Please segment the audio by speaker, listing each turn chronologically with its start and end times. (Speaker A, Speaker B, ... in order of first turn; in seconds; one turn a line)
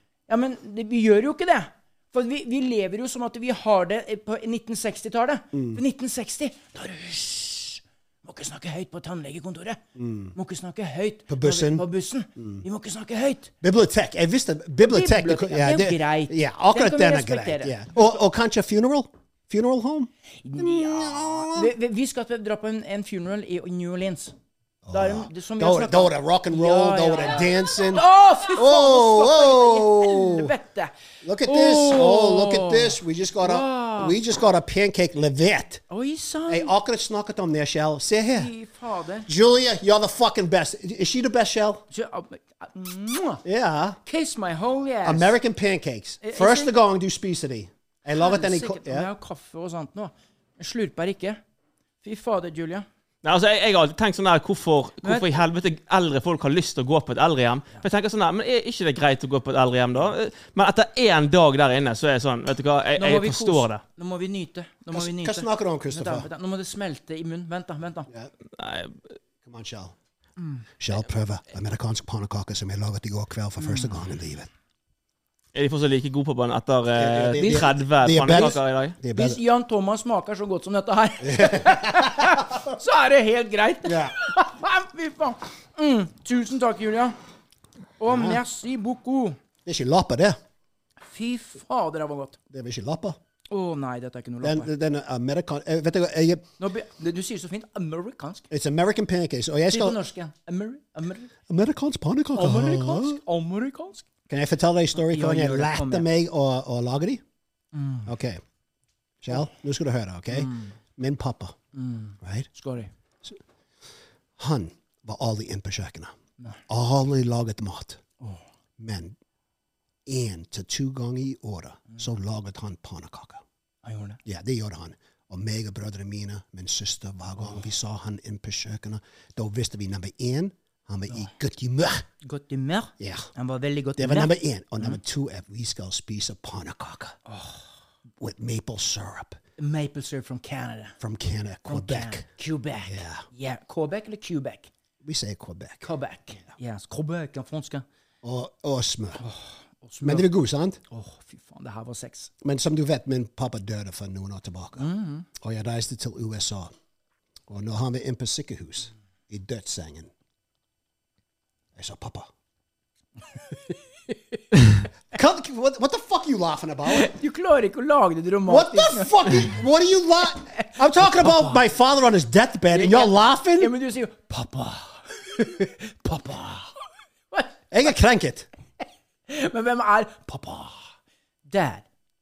Speaker A: 0.3-9.8
Speaker B: 5.5-5.8
Speaker B: 10.0-10.3
Speaker A: 10.3-13.5
Speaker B: 11.3-12.6
Speaker B: 13.6-21.7
Speaker A: 14.8-17.8
Speaker A: 20.4-24.3
Speaker B: 24.9-30.5
Speaker A: 24.9-34.2
Speaker B: 31.2-35.8
Speaker A: 35.9-36.7
Speaker B: 36.5-38.5
Speaker A: 38.3-39.3
Speaker B: 39.3-41.8
Speaker A: 41.9-43.4
Speaker B: 43.4-44.0
Speaker A: 44.0-45.4
Speaker B: 45.0-49.1
Speaker A: 46.2-46.7
Speaker A: 48.1-51.4
Speaker A: 52.0-52.9
Speaker C: 53.2-63.8
Speaker A: 55.0-55.3
Speaker A: 63.0-68.1
Speaker B: 64.9-66.3
Speaker C: 68.5-69.0
Speaker B: 69.4-70.0
Speaker A: 70.4-70.7
Speaker B: 70.8-74.5
Speaker A: 73.6-73.9
Speaker C: 75.5-79.0
Speaker B: 77.0-79.4
Speaker A: 77.4-77.7
Speaker A: 79.2-87.2
Speaker B: 81.2-82.4
Speaker B: 83.8-84.2
Speaker A: 88.0-89.4
Speaker B: 88.1-88.4
Speaker B: 89.7-90.4
Speaker A: 91.0-92.4
Speaker B: 92.5-93.2
Speaker A: 93.5-94.7
Speaker B: 94.4-96.5
Speaker A: 96.6-98.5
Speaker B: 98.5-100.0
Speaker A: 99.7-101.3
Speaker B: 101.5-103.2
Speaker A: 102.3-104.1
Speaker B: 104.3-107.2
Speaker A: 105.0-106.1
Speaker A: 107.7-108.1
Speaker B: 108.1-108.4
Speaker B: 109.2-111.5
Speaker A: 110.3-110.7
Speaker A: 111.7-112.9
Speaker B: 112.2-112.5
Speaker B: 114.4-116.2
Speaker B: 116.7-118.0
Speaker B: 118.8-119.2
Speaker B: 120.1-123.4
Speaker A: 123.8-124.2
Speaker B: 124.2-132.1
Speaker A: 132.2-135.0
Speaker B: 133.0-133.3
Speaker B: 134.0-137.2
Speaker A: 137.3-137.7
Speaker B: 138.2-139.4
Speaker A: 139.6-141.0
Speaker B: 141.0-142.3
Speaker A: 141.7-144.7
Speaker B: 142.8-143.2
Speaker B: 145.0-145.9
Speaker A: 145.8-147.8
Speaker B: 148.2-149.2
Speaker A: 149.2-150.3
Speaker B: 150.0-150.8
Speaker A: 150.9-152.3
Speaker B: 152.4-156.7
Speaker A: 154.8-155.3
Speaker B: 157.5-160.1
Speaker B: 161.8-162.3
Speaker A: 163.5-164.7
Speaker B: 165.1-167.1
Speaker A: 166.9-169.5
Speaker B: 168.5-173.7
Speaker A: 170.5-171.6
Speaker A: 172.7-176.7
Speaker A: 177.3-177.6
Speaker B: 177.7-178.5
Speaker A: 179.3-180.9
Speaker A: 181.5-181.8